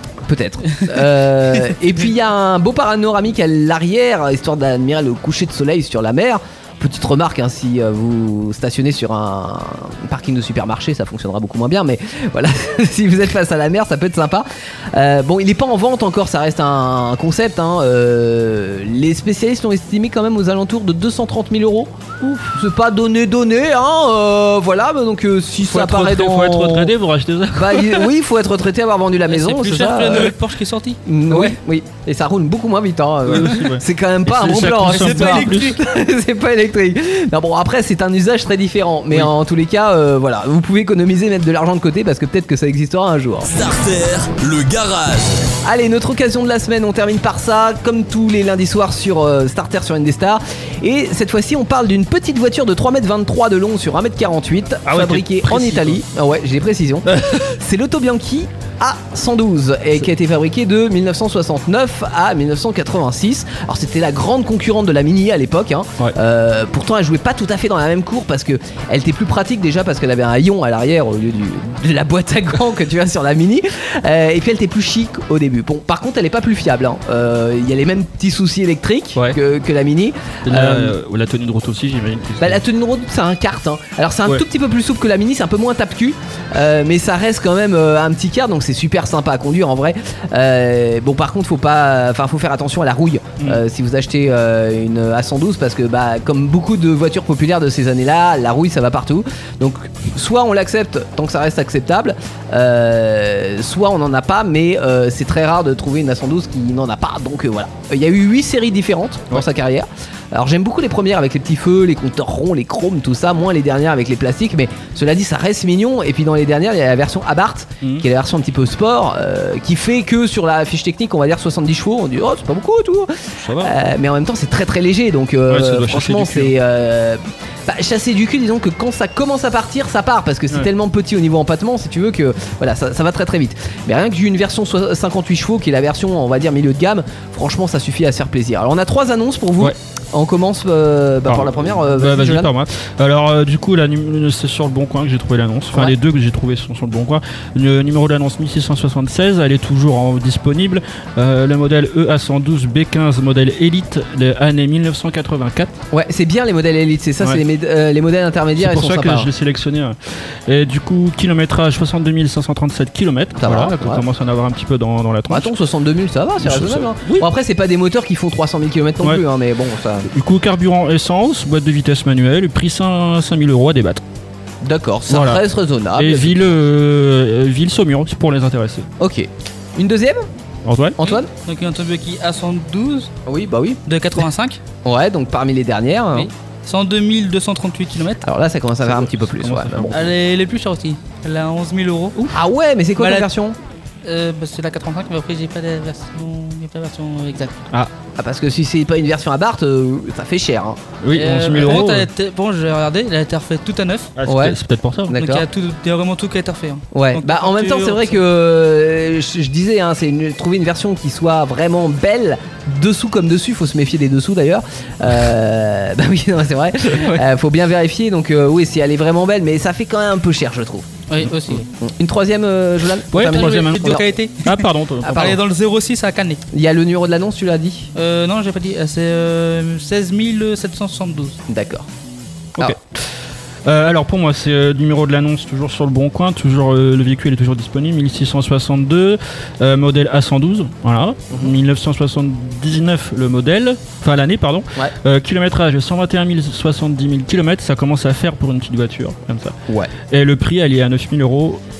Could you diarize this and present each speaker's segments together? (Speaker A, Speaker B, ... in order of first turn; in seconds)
Speaker A: 0.2-26.9, 27.5-30.3, 31.0-43.5, 45.6-80.9, 82.4-142.5, 155.9-159.3, 163.4-164.0, 165.3-170.1, 174.6-176.4, 179.0-180.2, 181.0-181.3, 183.2-183.8, 184.8-186.3, 188.2-190.1, 192.3-193.6, 198.2-200.8, 204.2-204.6, 205.1-205.4, 206.9-220.9, 221.5-224.1, 225.0-225.3, 226.5-227.9, 231.5-231.8
Speaker B: 0.7-1.1, 29.3-31.0, 34.7-35.7, 181.0-183.1, 183.8-184.6, 186.1-188.2, 189.9-192.3, 193.0-193.3, 194.0-197.6, 201.1-204.1, 205.1-208.2, 221.1-221.7, 223.2-226.4, 227.9-231.4
Speaker C: 25.6-28.1, 31.3-31.6, 33.2-35.8, 54.9-56.0, 57.1-57.5, 80.4-82.6, 123.4-123.8, 125.5-126.5, 141.3-155.7, 158.6-165.5, 166.4-167.3, 170.1-174.0, 175.1-175.4, 175.9-178.9, 180.6-181.0, 188.8-190.1, 201.0-202.1, 204.2-205.2, 216.9-217.2, 223.1-225.4, 233.6-249.5, 250.1-251.6
Speaker D: 43.4-45.5